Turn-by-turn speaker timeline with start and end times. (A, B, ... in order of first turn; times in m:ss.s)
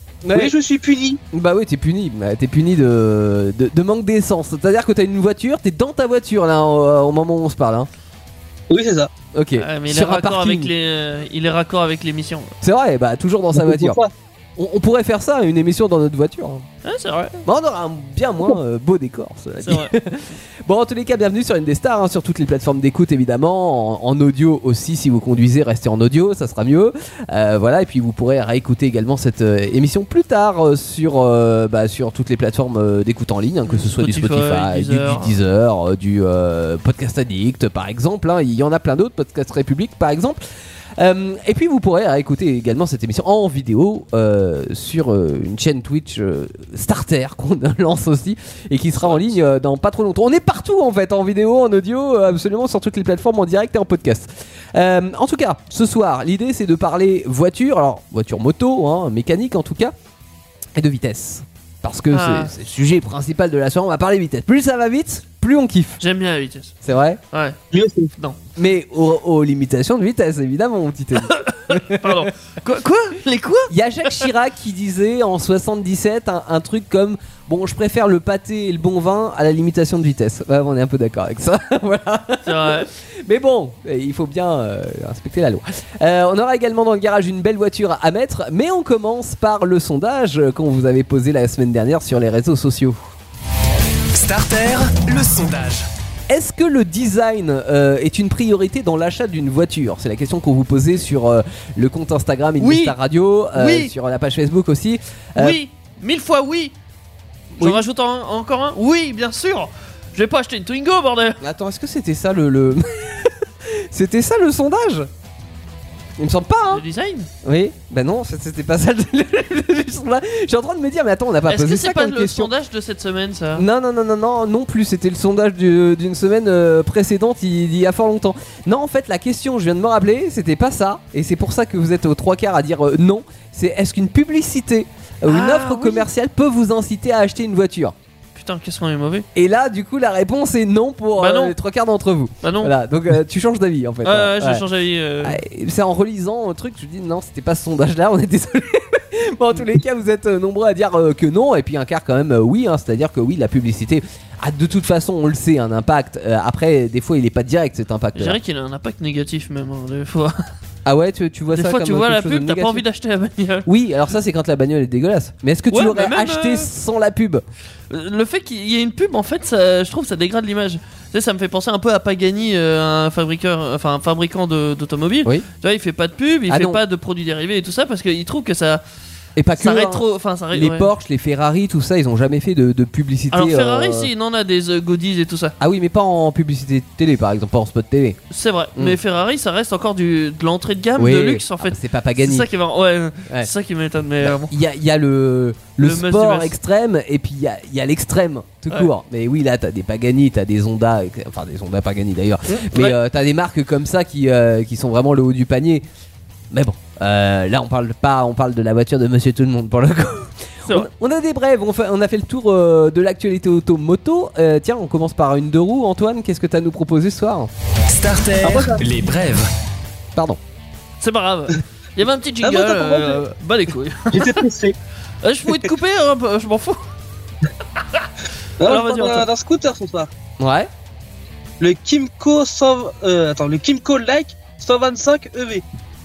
0:00.2-0:00.5 A
0:00.3-0:01.2 B
0:01.3-0:07.9 A
0:08.7-0:09.1 B
0:09.3-0:10.7 A
0:09.6-0:12.5 C
0:12.6-0:14.0 A
0:13.6-0:14.1 B
0:14.6-0:16.7 A
0:16.8-0:17.4 C
0:17.4-0:40.4 A
0:19.6-0:20.0 C
0:33.7-0:35.4 C
0:41.0-0:59.9 A
0:49.0-0:49.4 C
1:00.8-1:06.0 A
1:02.1-1:02.5 C
1:06.0-1:06.8 C
1:06.8-1:07.2 A
1:07.3-1:07.6 C
1:07.7-1:08.1 B
1:08.6-1:12.3 A
1:11.2-1:14.3 C
1:13.7-1:33.0 A
1:22.4-1:22.9 C
1:34.1-1:35.9 D
1:36.3-1:45.6 A
1:42.6-1:43.0 C
1:43.5-1:43.9 C
1:45.4-1:46.8 C
1:47.5-1:51.4 C
1:51.4-1:55.1 A
1:56.2-1:56.8 A
1:56.7-1:57.3 C
1:57.4-2:02.5 A
2:01.5-2:03.6 C
2:03.6-2:17.9 A
2:15.2-2:16.1 C
2:18.4-2:19.3 C
2:19.4-2:24.6 A
2:21.2-2:21.6 C
2:22.4-2:22.7 C
2:24.0-2:25.4 C
2:25.2-2:38.4 A
2:38.2-2:40.5 C
2:40.9-2:42.8 A
2:41.5-2:43.7 C
2:43.7-2:47.4 A
2:45.7-2:46.7 C
2:47.9-2:58.8 C
2:56.5-2:56.8 A
2:59.4-3:04.1 A
2:59.6-3:00.9 C
3:03.3-3:05.6 C
3:05.6-3:08.2 A
3:08.3-3:14.6 C
3:11.0-3:12.5 A
3:14.2-3:25.8 A
3:15.8-3:16.6 C
3:22.5-3:23.0 C
3:26.5-3:37.5 A
3:37.9-3:39.5 D
3:38.4-3:38.8 B
3:40.2-3:40.4 A
3:41.0-3:44.5 C
3:42.4-3:43.2 B
3:44.1-3:44.8 B
3:45.2-3:46.8 C
3:47.8-3:48.1 C
3:48.6-3:50.1 B
3:48.6-3:49.3 C
3:50.4-3:50.7 A
3:51.6-3:55.6 B